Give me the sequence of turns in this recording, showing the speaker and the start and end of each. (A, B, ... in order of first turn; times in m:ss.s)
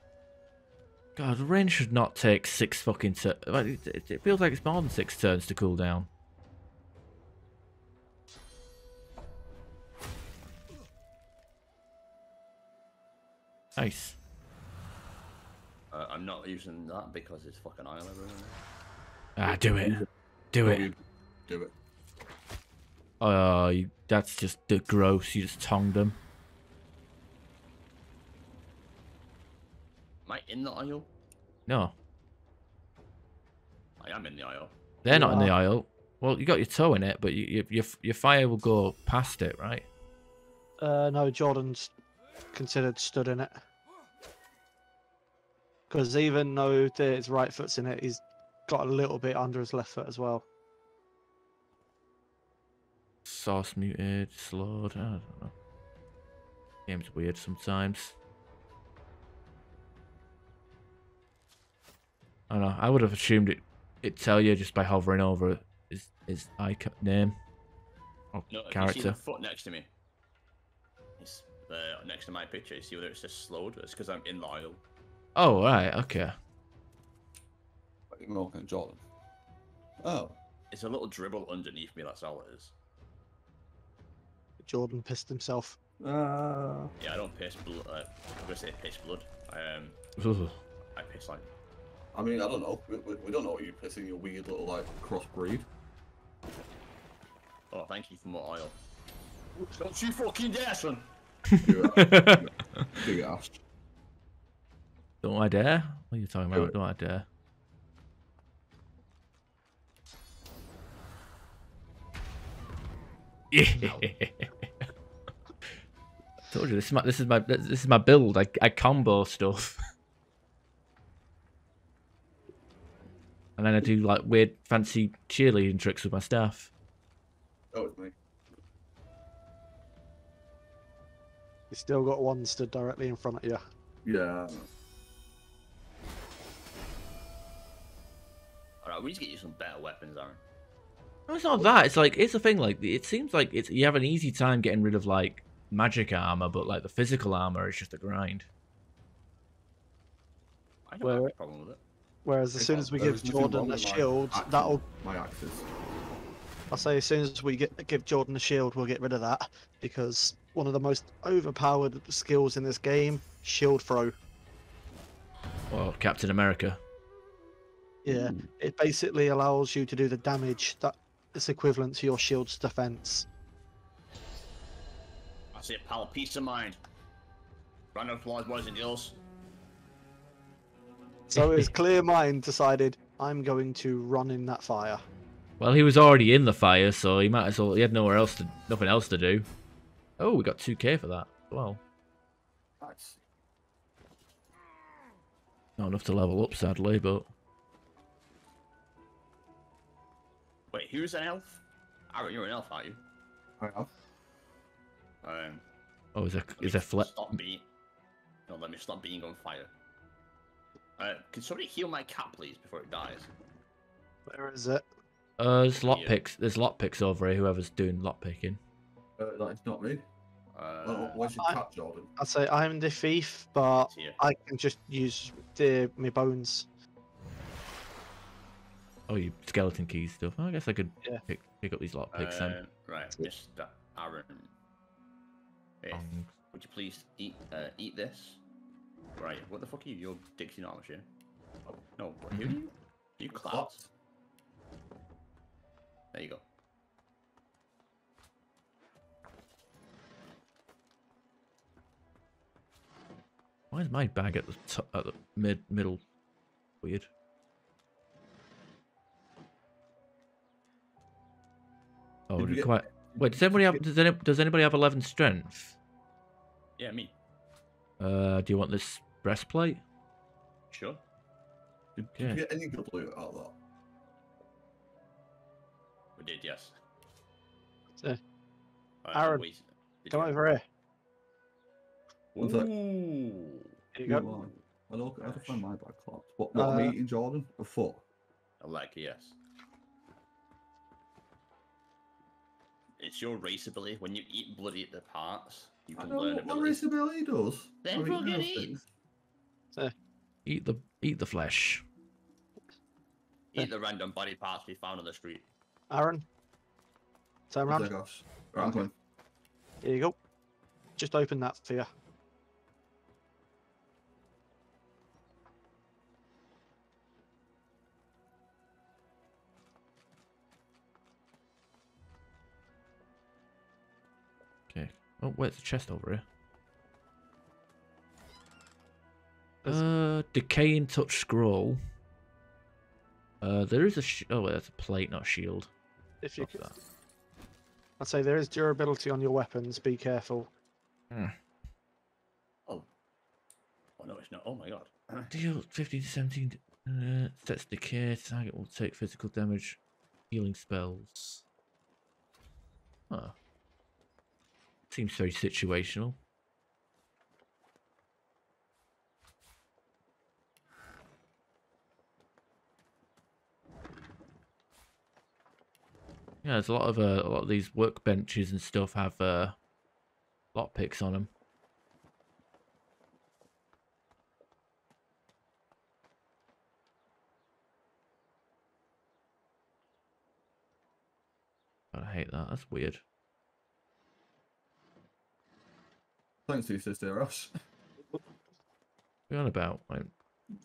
0:01.2-0:06.1 A
0:13.8-0:14.2 A
0:15.9-0:18.6 B
0:19.4-0:20.9 A
0:19.8-0:20.1 C
0:20.6-0:21.7 C
0:23.2-0:26.2 A
0:30.2-0:31.1 B
0:31.7-0:31.9 A
0:34.0-0:34.8 B
0:35.0-0:39.8 A
0:35.1-0:35.5 D
0:40.8-0:41.9 D
0:42.5-0:43.6 D
0:45.9-0:50.4 D
0:53.2-0:55.5 A
0:56.9-0:58.2 A
1:02.5-1:07.4 A
1:08.3-1:09.2 A
1:08.5-1:09.9 B
1:11.2-1:14.8 B
1:15.4-1:16.3 A
1:18.1-1:19.0 C
1:20.0-1:20.4 C
1:20.7-1:22.7 B
1:24.6-1:25.8 D
1:26.0-1:26.9 C
1:27.0-1:30.0 B
1:30.2-1:30.6 A
1:31.0-1:31.4 B
1:32.1-1:35.7 C
1:37.7-1:38.8 B
1:39.6-1:41.1 B
1:41.6-1:43.6 C
1:41.6-1:43.1 A
1:45.2-1:47.2 A
1:53.5-1:54.7 A
1:53.8-1:54.1 B
1:56.5-1:59.8 A
2:03.6-2:06.7 A
2:07.7-2:08.1 C
2:11.7-2:13.6 D
2:14.0-2:14.6 C
2:18.8-2:20.4 B
2:21.3-2:28.5 A
2:30.9-2:31.8 B
2:31.0-2:31.3 D
2:32.2-2:34.8 D
2:32.6-2:35.7 C
2:36.7-2:44.1 D
2:45.7-2:46.8 A
2:48.0-2:53.3 D
2:55.5-2:56.8 B
2:57.9-2:59.2 B
3:01.3-3:05.0 D
3:01.3-3:01.7 A
3:05.6-3:09.5 A
3:10.2-3:11.8 A
3:12.8-3:13.2 C
3:15.8-3:17.3 A
3:20.7-3:23.0 B
3:23.6-3:23.9 C
3:25.2-3:25.6 B
3:26.1-3:27.4 A
3:26.6-3:27.6 B
3:28.5-3:29.7 B
3:31.0-3:33.3 B
3:34.3-3:34.8 D
3:35.4-3:38.6 A
3:35.8-3:36.2 B
3:39.2-3:40.0 C
3:40.5-3:41.2 B
3:40.8-3:42.1 C
3:42.2-3:46.6 D
3:43.8-3:44.2 B
3:49.1-3:52.6 A
3:52.1-3:54.5 B
3:55.8-3:58.4 B
3:55.9-3:56.3 A
3:59.2-4:01.1 B
4:01.9-4:03.8 B
4:02.3-4:02.6 A
4:03.3-4:03.9 C
4:06.1-4:06.4 B
4:13.7-4:16.0 A
4:16.8-4:17.1 A
4:22.3-4:25.8 A
4:22.3-4:23.8 C
4:26.8-4:27.1 B
4:28.0-4:29.8 A
4:30.7-4:31.0 B
4:32.0-4:33.5 C
4:36.2-4:36.7 B
4:39.0-4:40.4 B
4:39.1-4:39.4 D
4:40.1-4:40.6 D
4:42.3-4:44.6 B
4:42.4-4:42.7 C
4:43.9-4:44.2 D
4:44.0-4:48.0 C
4:45.2-4:45.6 B
4:46.5-4:47.0 D
4:48.6-4:49.4 B
4:53.0-4:56.8 B
4:56.0-4:58.8 C
4:57.8-4:58.8 B
5:00.4-5:01.8 A
5:03.5-5:05.5 B
5:05.9-5:06.2 D
5:07.5-5:07.9 D
5:07.7-5:08.9 C
5:08.6-5:08.8 D
5:09.8-5:10.2 D
5:11.0-5:11.9 D
5:24.7-5:26.2 A
5:29.6-5:31.8 A
5:33.4-5:35.7 A
5:36.2-5:36.7 D
5:36.4-5:36.7 A
5:38.0-5:40.5 D
5:41.1-5:41.4 A
5:44.0-5:45.3 B
5:45.3-5:49.8 A
5:50.3-5:51.4 A
5:53.1-5:53.3 A
5:54.9-5:56.2 A
6:06.4-6:09.6 A
6:10.5-6:11.3 A
6:21.9-6:23.0 A
6:26.4-6:27.5 C
6:29.3-6:30.1 A